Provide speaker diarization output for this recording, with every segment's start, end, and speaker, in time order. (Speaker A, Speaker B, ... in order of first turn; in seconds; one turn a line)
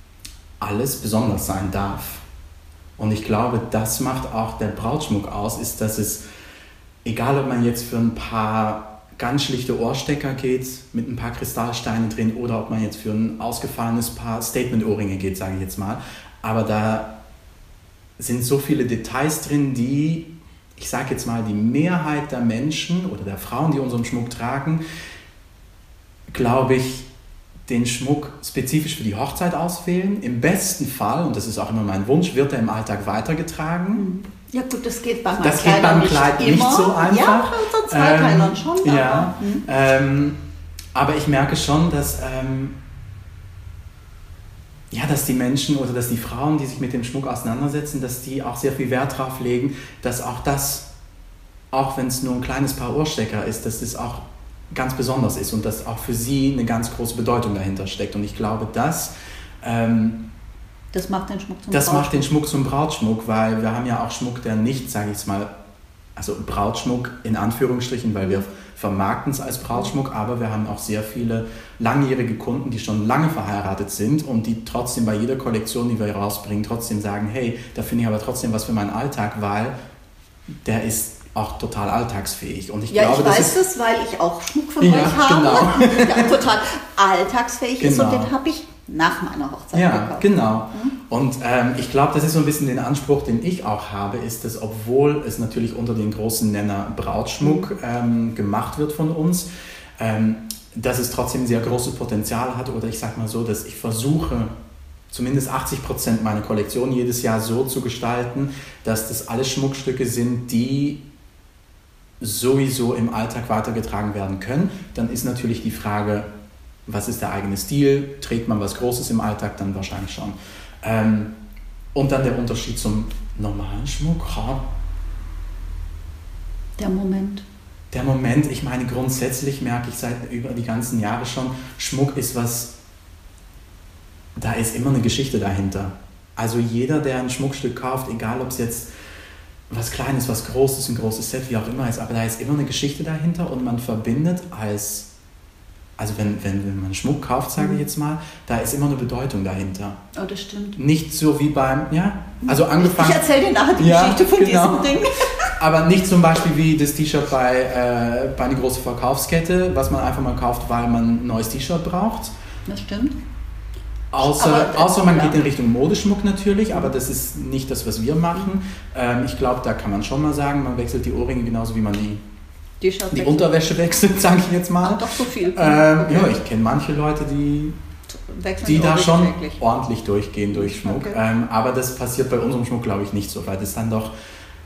Speaker A: 0.6-2.2
Speaker A: 3.0-6.2
Speaker A: 7.0-17.1
Speaker A: 18.2-24.8
Speaker A: 26.3-27.1
Speaker A: 27.7-34.0
Speaker B: 33.9-39.6
Speaker A: 35.4-40.4
Speaker A: 40.9-42.8
Speaker A: 44.9-50.9
Speaker A: 51.7-59.1
Speaker A: 59.6-60.2
Speaker B: 60.9-62.2
Speaker A: 61.7-65.5
Speaker A: 66.2-79.7
Speaker A: 80.6-83.6
Speaker B: 82.9-90.9
Speaker A: 84.8-86.3
Speaker A: 87.8-88.3
Speaker A: 89.7-99.5
Speaker B: 97.4-97.7
Speaker A: 100.0-104.5
Speaker A: 105.1-111.0
Speaker A: 112.2-116.3
Speaker A: 116.8-121.3
Speaker A: 121.9-124.6
Speaker B: 126.8-127.4
Speaker A: 127.9-132.7
Speaker A: 134.3-138.9
Speaker A: 139.7-145.1
Speaker A: 146.0-150.0
Speaker B: 150.1-150.8
Speaker A: 150.8-153.2
Speaker B: 152.4-155.5
Speaker A: 153.8-155.0
Speaker A: 155.6-162.3
Speaker B: 162.7-163.2
Speaker A: 164.1-172.2
Speaker B: 164.2-165.4
Speaker B: 172.8-173.6
Speaker A: 173.1-175.0
Speaker B: 174.8-176.4
Speaker A: 175.5-177.8
Speaker B: 178.1-179.6
Speaker A: 178.6-184.1
Speaker B: 180.5-181.2